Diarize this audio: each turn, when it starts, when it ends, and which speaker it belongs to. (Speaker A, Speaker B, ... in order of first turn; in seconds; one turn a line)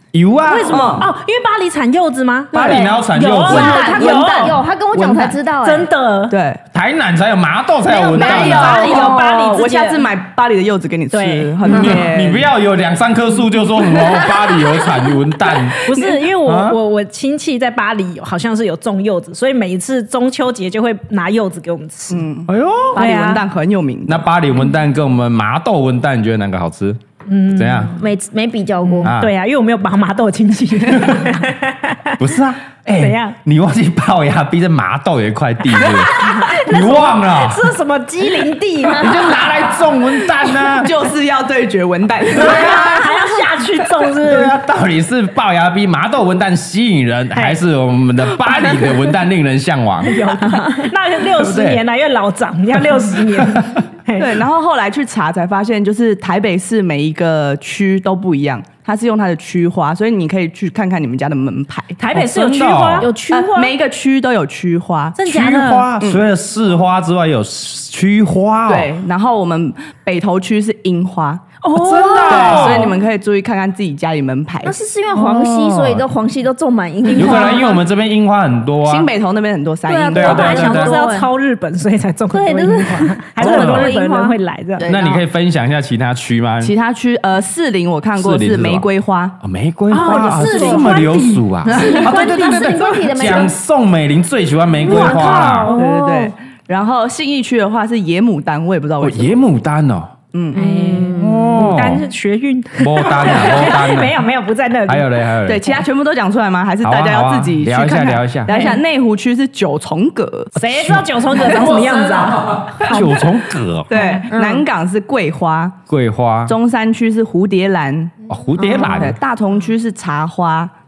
Speaker A: 0.1-1.1
Speaker B: 0.5-4.6
Speaker C: 0.7-1.1
Speaker A: 2.5-3.9
Speaker D: 2.5-5.9
Speaker C: 3.9-5.4
Speaker B: 5.6-6.3
Speaker C: 6.3-6.6
Speaker A: 6.7-9.1
Speaker B: 7.9-10.1
Speaker C: 8.1-12.5
Speaker D: 8.9-9.6
Speaker B: 11.1-11.9
Speaker A: 11.7-15.8
Speaker C: 13.8-16.3
Speaker B: 15.9-22.3
Speaker A: 16.4-16.8
Speaker C: 22.1-24.3
Speaker A: 22.5-23.0
Speaker B: 23.0-23.4
Speaker A: 24.1-27.0
Speaker B: 27.3-28.0
Speaker A: 27.5-28.0
Speaker D: 27.9-29.1
Speaker B: 29.0-32.2
Speaker A: 29.0-29.3
Speaker A: 30.9-31.4
Speaker A: 32.2-37.7
Speaker B: 32.9-33.4
Speaker B: 35.7-39.3
Speaker A: 39.0-40.9
Speaker C: 40.7-43.0
Speaker B: 42.3-44.6
Speaker A: 42.6-42.9
Speaker A: 44.2-50.3
Speaker B: 50.0-54.3
Speaker A: 51.3-51.8
Speaker A: 53.3-53.8
Speaker C: 54.1-62.0
Speaker B: 62.0-63.1
Speaker A: 62.1-63.1
Speaker D: 63.0-63.8
Speaker C: 63.3-65.2
Speaker B: 65.2-65.9
Speaker A: 65.3-68.9
Speaker C: 68.7-71.5
Speaker B: 71.6-72.9
Speaker A: 71.8-73.0
Speaker C: 72.2-74.8
Speaker D: 74.6-77.8
Speaker A: 75.1-76.1
Speaker A: 77.1-79.1
Speaker B: 77.2-77.7
Speaker C: 78.8-80.7
Speaker D: 79.9-81.3
Speaker A: 80.1-81.0
Speaker B: 80.2-84.9
Speaker D: 82.3-85.2
Speaker A: 83.4-83.9
Speaker C: 84.8-85.2
Speaker A: 84.8-86.7
Speaker C: 86.6-89.4
Speaker A: 88.2-88.9
Speaker A: 89.4-95.7
Speaker B: 89.9-92.0
Speaker D: 90.0-91.0
Speaker C: 90.2-91.0
Speaker C: 91.7-92.3
Speaker D: 91.7-93.5
Speaker D: 94.8-96.3
Speaker B: 94.8-96.3
Speaker C: 95.7-99.4
Speaker A: 99.0-100.2
Speaker C: 100.3-100.7
Speaker B: 100.5-105.2
Speaker D: 100.5-101.8
Speaker A: 101.2-102.0
Speaker A: 102.8-104.2
Speaker A: 104.9-105.8
Speaker C: 105.5-110.5
Speaker A: 106.8-108.5
Speaker B: 108.5-108.8
Speaker B: 110.5-113.3
Speaker A: 110.6-111.9
Speaker A: 112.7-113.9
Speaker C: 113.9-115.8
Speaker B: 113.9-114.3
Speaker D: 114.3-114.7
Speaker A: 115.9-116.6
Speaker C: 116.5-118.2
Speaker A: 118.3-119.2
Speaker D: 118.6-119.1
Speaker C: 118.8-120.7